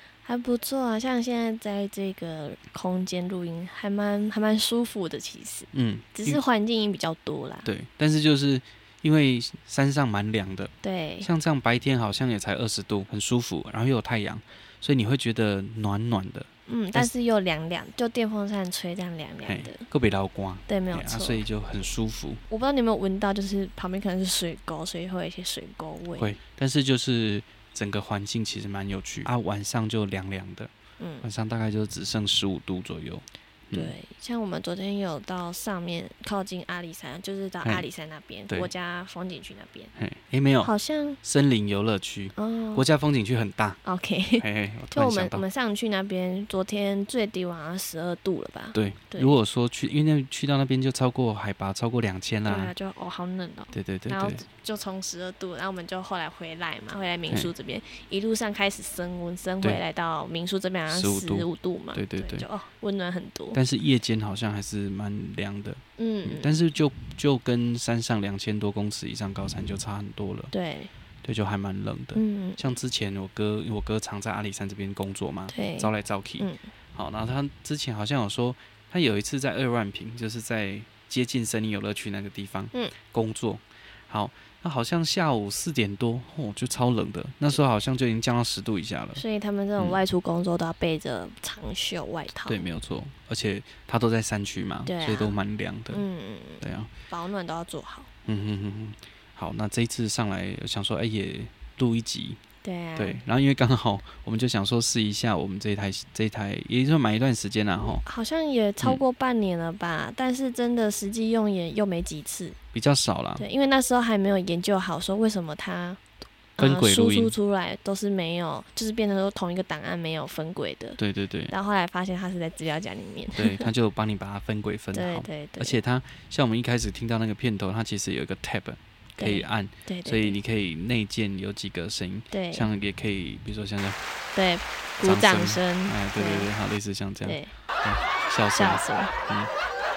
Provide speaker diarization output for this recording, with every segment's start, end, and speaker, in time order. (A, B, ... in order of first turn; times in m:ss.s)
0:00.2-0:07.7 A
0:05.7-0:06.4 B
0:07.6-0:17.1 B
0:10.8-0:11.3 A
0:16.7-0:19.8 A
0:19.4-0:22.4 B
0:20.7-0:21.4 A
0:22.5-0:26.3 A
0:26.2-0:33.9 B
0:31.0-0:31.3 A
0:33.7-0:39.9 A
0:40.0-0:40.7 B
0:40.6-0:41.2 A
0:41.2-0:43.8 B
0:42.4-0:42.9 A
0:43.8-0:49.4 A
0:44.4-0:45.4 B
0:48.8-0:52.7 B
0:52.4-1:03.6 A
0:53.7-0:54.4 B
1:00.9-1:02.5 B
1:03.5-1:10.5 B
1:06.0-1:06.6 A
1:10.5-1:10.9 A
1:11.2-1:29.2 B
1:12.2-1:12.8 A
1:15.5-1:16.7 A
1:29.2-1:32.7 A
1:32.5-1:36.0 B
1:34.9-1:35.4 A
1:35.9-1:38.1 A
1:36.6-1:36.9 B
1:38.3-1:42.4 B
1:42.6-1:43.2 A
1:43.0-1:48.0 B
1:48.0-1:52.6 A
1:52.7-1:53.4 B
1:53.4-1:56.0 A
1:56.6-2:03.7 A
1:56.6-1:57.4 B
2:01.0-2:01.5 B
2:03.4-2:14.0 B
2:04.9-2:05.8 A
2:09.2-2:10.4 A
2:12.3-2:12.7 A
2:14.4-2:16.5 A
2:15.0-2:19.5 B
2:17.2-2:17.5 A
2:18.5-2:19.2 A